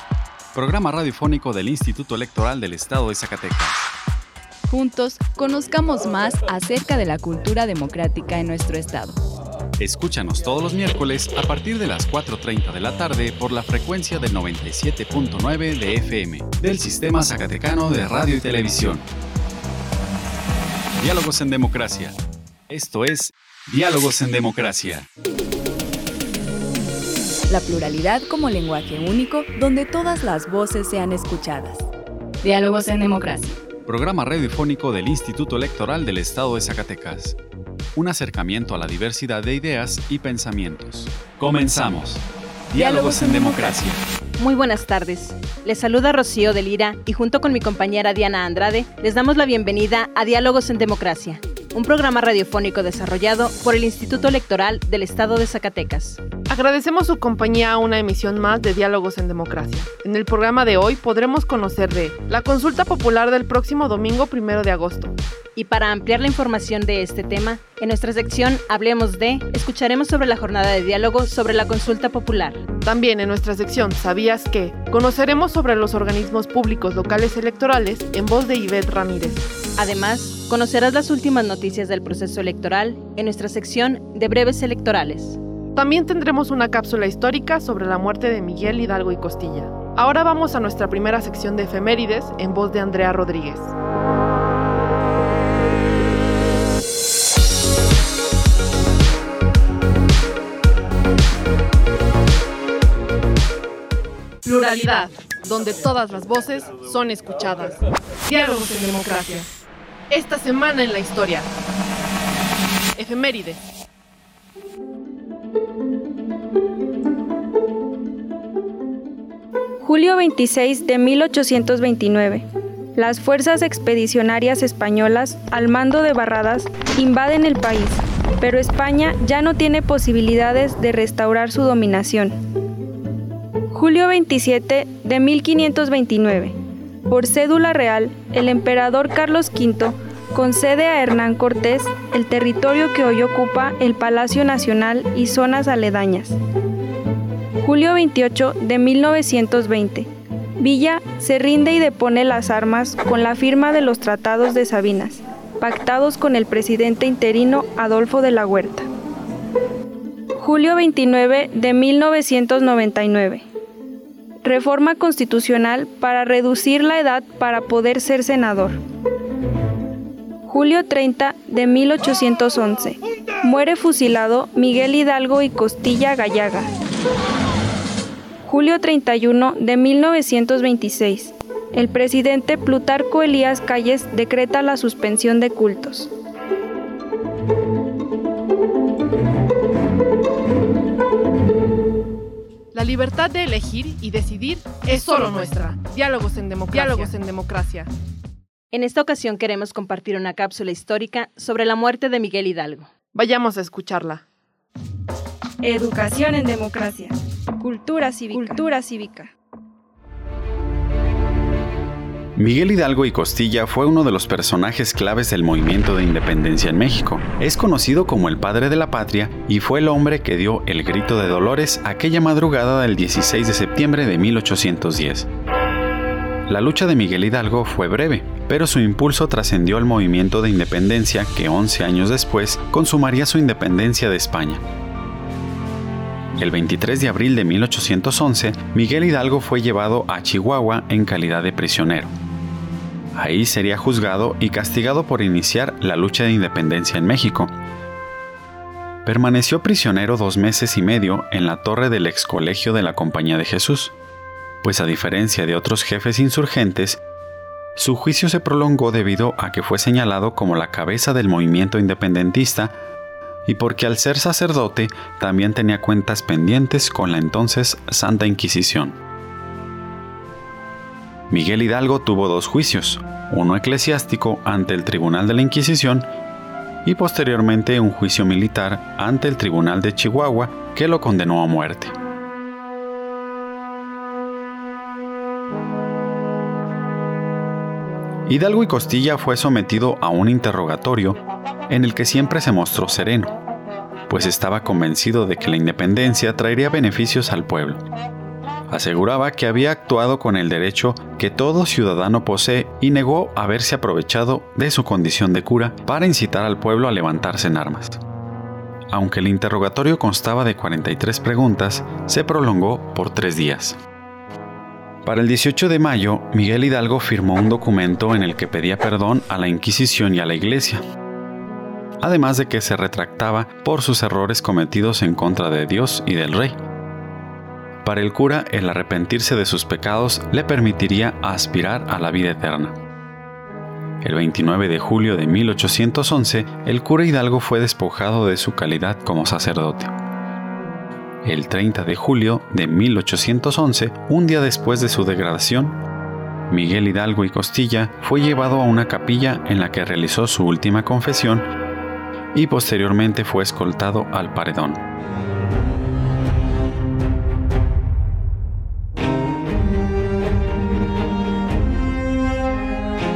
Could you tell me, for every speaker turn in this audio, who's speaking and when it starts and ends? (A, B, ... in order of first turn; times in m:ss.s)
0:00.5-0:03.8 A
0:04.7-0:09.2 B
0:09.8-0:19.1 A
0:21.0-0:22.2 A
0:22.7-0:25.1 A
0:27.5-0:31.9 B
0:32.4-0:33.6 B
0:33.9-0:37.4 A
0:38.0-0:44.0 A
0:42.8-0:43.8 B
0:44.4-0:56.2 C
0:56.5-1:05.1 D
1:05.6-1:12.6 C
1:12.8-1:19.4 D
1:19.8-1:25.4 C
1:25.8-1:33.7 D
1:44.4-1:49.5 D
1:50.1-1:51.5 D
1:53.0-1:53.6 D
1:59.8-2:02.4 E
2:03.0-2:12.4 E
2:13.7-2:16.6 E
2:17.1-2:26.4 E
2:27.6-2:38.9 E
2:40.4-2:43.4 E
2:44.4-2:48.8 E
2:50.5-2:56.7 E
2:58.4-3:06.1 E
3:12.7-3:17.9 D
3:16.8-3:17.1 C
3:18.7-3:22.9 C
3:23.1-3:24.2 D
3:25.6-3:29.3 E
3:32.4-3:45.3 A
3:46.5-3:54.6 A
3:56.4-4:02.1 A
4:03.1-4:07.5 A
4:09.0-4:13.9 A
4:14.6-4:17.0 A
4:17.8-4:22.8 A
4:23.5-4:29.0 A
4:31.3-4:36.1 A
4:36.8-4:42.0 A
4:48.3-4:53.4 A
4:54.1-4:57.8 A
4:58.7-5:08.0 A
5:08.9-5:13.8 A
5:15.0-5:20.8 A
5:22.0-5:26.6 A
5:27.8-5:32.8 A
5:34.0-5:39.9 A
5:41.2-5:45.8 A
5:46.5-5:51.5 A
5:52.3-5:54.8 A